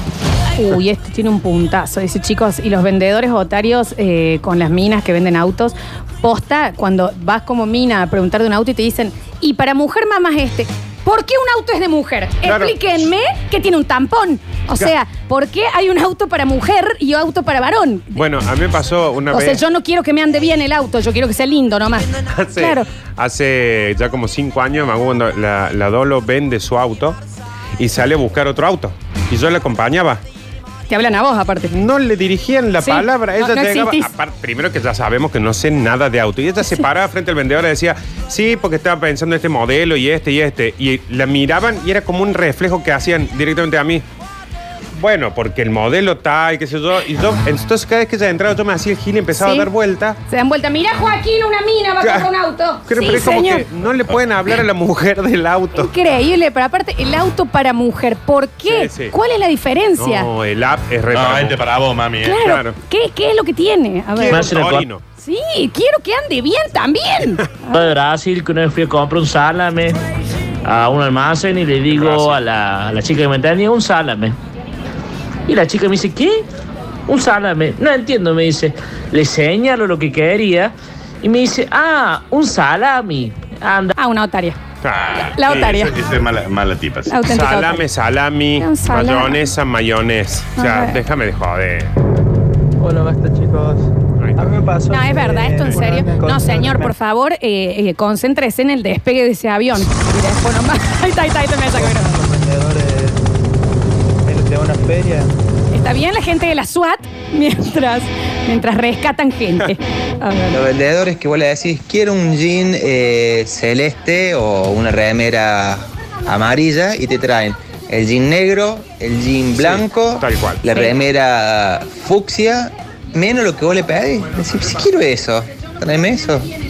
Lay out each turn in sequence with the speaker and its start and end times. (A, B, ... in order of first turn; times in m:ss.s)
0:00.6-0:18.2 A
0:12.4-0:12.8 B
0:18.2-0:19.6 B
0:19.3-0:22.9 A
0:22.3-0:27.2 B
0:27.8-0:30.2 B
0:30.9-0:31.7 A
0:31.7-0:44.0 B
0:32.8-0:34.1 A
0:45.0-0:50.2 B
0:49.4-0:49.7 A
0:50.3-0:53.6 A
0:52.0-0:52.3 B
0:52.9-0:55.9 B
0:55.8-1:00.3 A
0:58.6-0:59.1 B
1:00.0-1:01.6 B
1:01.1-1:02.4 C
1:02.2-1:04.4 A
1:02.3-1:02.7 B
1:04.2-1:05.0 B
1:04.3-1:04.8 D
1:05.2-1:07.9 A
1:07.7-1:10.0 D
1:10.6-1:14.4 D
1:11.9-1:12.4 B
1:15.5-1:16.4 D
1:17.1-1:20.7 D
1:21.2-1:23.9 D
1:24.0-1:24.6 A
1:24.8-1:25.1 B
1:24.9-1:27.1 C
1:25.3-1:26.0 A
1:27.1-1:27.8 A
1:27.2-1:31.9 B
1:28.6-1:29.4 A
1:30.6-1:31.0 A
1:32.8-1:36.8 E
1:34.9-1:42.2 A
1:42.0-1:43.2 E
1:44.2-1:45.3 E
1:45.7-1:50.6 A
1:50.5-2:06.5 F
1:59.6-2:00.6 B